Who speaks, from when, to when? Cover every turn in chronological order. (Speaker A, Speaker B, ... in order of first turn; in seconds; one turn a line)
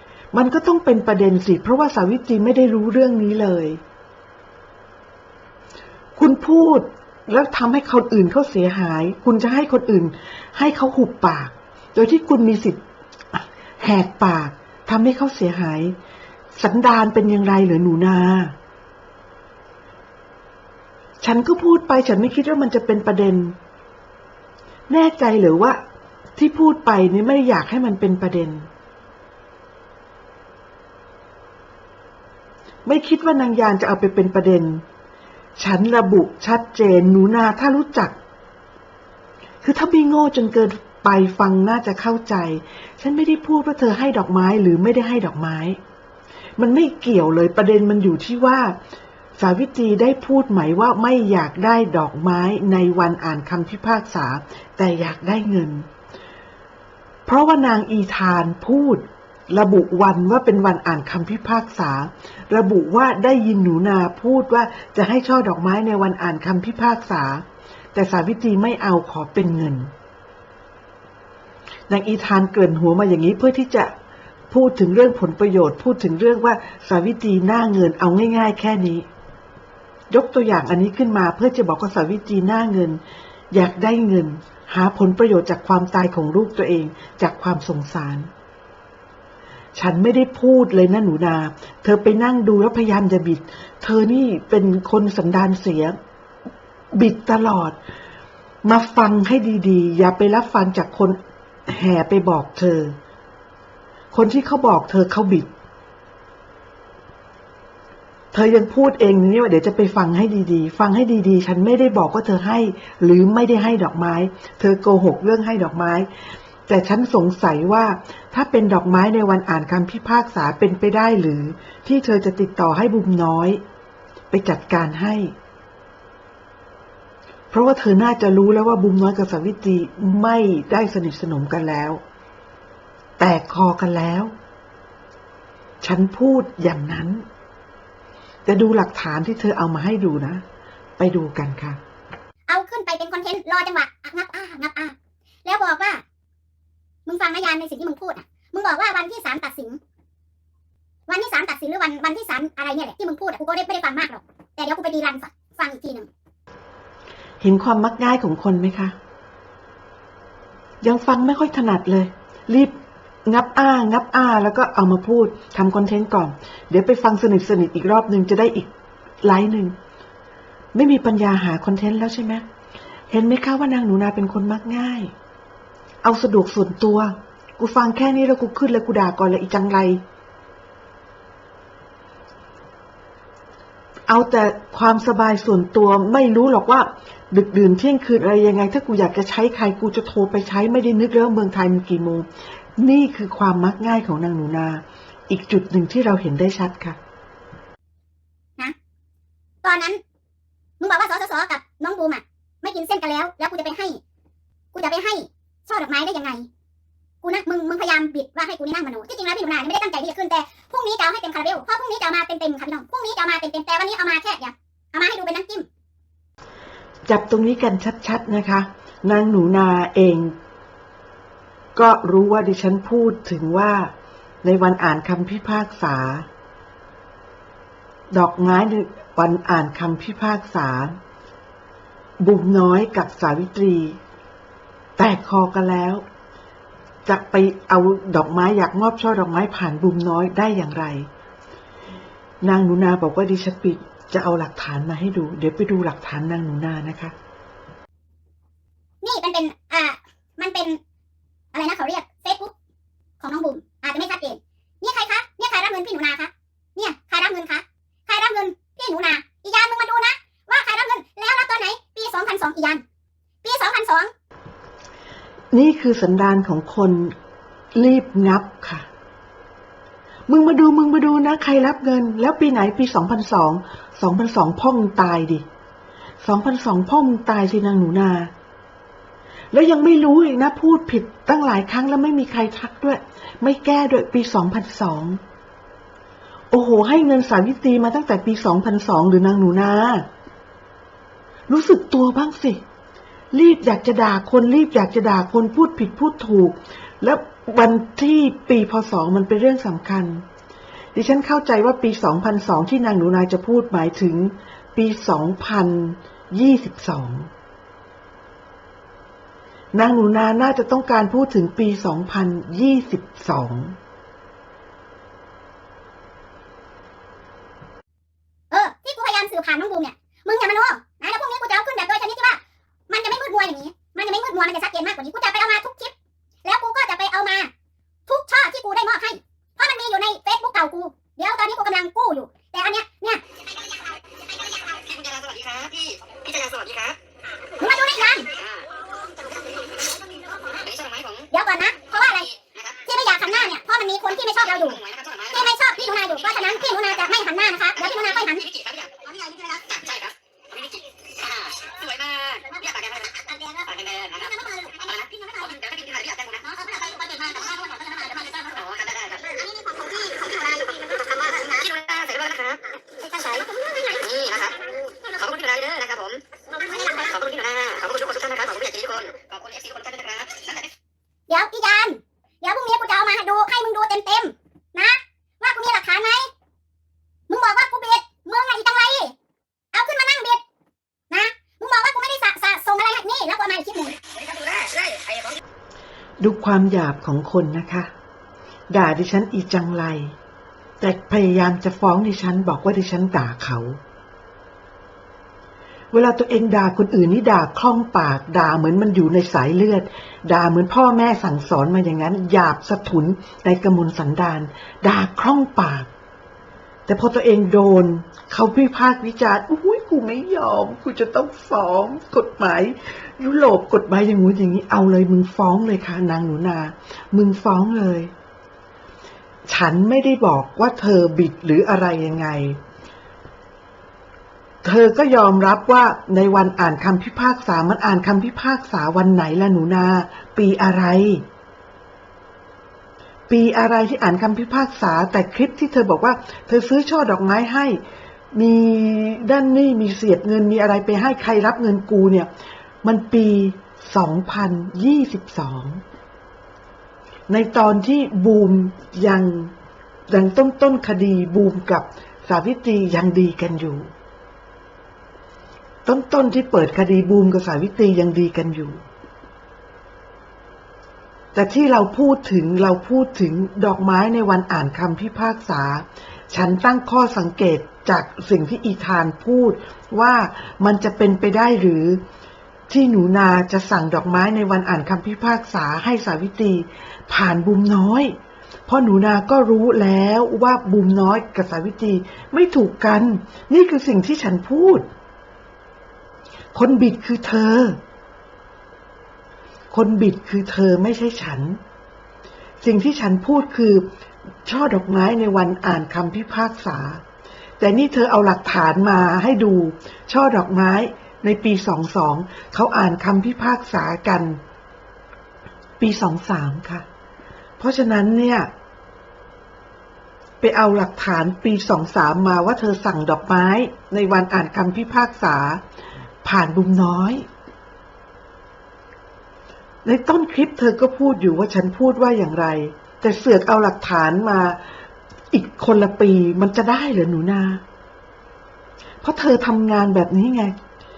Speaker A: 0.3-3.8
Speaker A: 6.2-12.8
Speaker A: 13.3-15.9
Speaker A: 16.6-18.5
Speaker A: 21.2-23.6
Speaker A: 24.9-25.8
Speaker A: 26.4-28.7
Speaker A: 32.8-34.8
Speaker A: 35.6-38.1
Speaker A: 39.6-45.8
Speaker A: 46.6-48.8
Speaker A: 49.4-55.9
Speaker A: 57.2-69.9
Speaker A: 71.9-73.9
Speaker A: 74.5-79.1
Speaker A: 80.1-83.0
Speaker A: 83.5-88.3
Speaker A: 89.7-96.0
Speaker A: 96.9-97.8
Speaker A: 98.6-103.0
Speaker A: 104.1-105.5
Speaker A: 108.3-116.1
Speaker A: 116.7-123.6
Speaker A: 124.3-125.3
Speaker A: 127.5-132.0
Speaker A: 133.2-134.3
Speaker A: 135.8-137.2
Speaker A: 138.4-140.4
Speaker A: 141.0-141.8
Speaker B: 142.5-146.0
Speaker B: 147.1-149.8
Speaker B: 151.1-156.1
Speaker A: 157.4-158.9
Speaker A: 160.8-168.7
Speaker A: 169.2-169.8
Speaker A: 170.7-172.4
Speaker A: 173.1-175.1
Speaker A: 176.0-180.0
Speaker A: 184.1-192.3
Speaker A: 192.8-197.0
Speaker B: 199.6-200.0
Speaker B: 200.8-204.0
Speaker B: 204.7-206.5
Speaker B: 207.2-215.7
Speaker A: 217.1-220.3
Speaker A: 221.8-223.9
Speaker A: 224.4-226.2
Speaker A: 228.1-231.0
Speaker A: 232.2-234.0
Speaker A: 235.0-236.0
Speaker A: 237.1-241.1
Speaker A: 242.4-247.1
Speaker B: 249.0-250.8
Speaker B: 251.5-252.5
Speaker B: 253.2-262.8
Speaker B: 263.4-264.1
Speaker A: 265.5-267.1
Speaker A: 267.7-268.9
Speaker A: 270.3-275.4
Speaker A: 276.2-278.3
Speaker A: 279.5-285.2
Speaker A: 286.5-290.1
Speaker A: 291.5-292.6
Speaker A: 293.3-300.2
Speaker A: 300.9-307.3
Speaker A: 309.7-313.8
Speaker B: 318.5-322.4
Speaker B: 322.9-325.9
Speaker B: 326.4-327.5
Speaker B: 328.1-333.2
Speaker C: 334.6-337.0
Speaker B: 337.6-338.3
Speaker C: 338.3-338.6
Speaker C: 339.2-339.7
Speaker C: 340.4-341.3
Speaker B: 341.3-342.3
Speaker B: 342.9-348.5
Speaker C: 344.5-345.4
Speaker C: 348.1-354.3
Speaker B: 354.2-355.5
Speaker C: 355.4-357.0
Speaker B: 356.7-358.2
Speaker C: 358.2-359.4
Speaker B: 359.4-360.3
Speaker C: 360.3-362.6
Speaker B: 363.0-364.1
Speaker C: 364.0-366.2
Speaker B: 366.5-367.1
Speaker C: 366.9-370.7
Speaker B: 371.3-376.3
Speaker B: 377.3-379.1
Speaker B: 379.7-380.4
Speaker B: 381.1-383.9
Speaker C: 384.3-385.2
Speaker A: 386.2-387.9
Speaker A: 388.7-390.1
Speaker A: 390.8-393.8
Speaker A: 395.9-405.9
Speaker A: 406.9-418.1
Speaker A: 419.5-422.6
Speaker A: 424.6-431.2
Speaker A: 433.3-437.8
Speaker A: 438.3-442.3
Speaker A: 442.8-445.8
Speaker A: 447.3-449.5
Speaker A: 450.1-453.9
Speaker A: 455.8-458.8
Speaker A: 461.3-472.0
Speaker A: 472.7-478.1
Speaker A: 478.7-484.9
Speaker A: 486.5-487.8
Speaker A: 489.7-491.6
Speaker A: 492.6-493.9
Speaker A: 494.4-497.0
Speaker A: 497.6-504.4
Speaker A: 505.8-506.8
Speaker A: 507.6-508.5
Speaker A: 510.4-515.6
Speaker A: 516.2-517.2
Speaker A: 519.8-524.6
Speaker A: 525.3-527.6
Speaker A: 529.0-530.5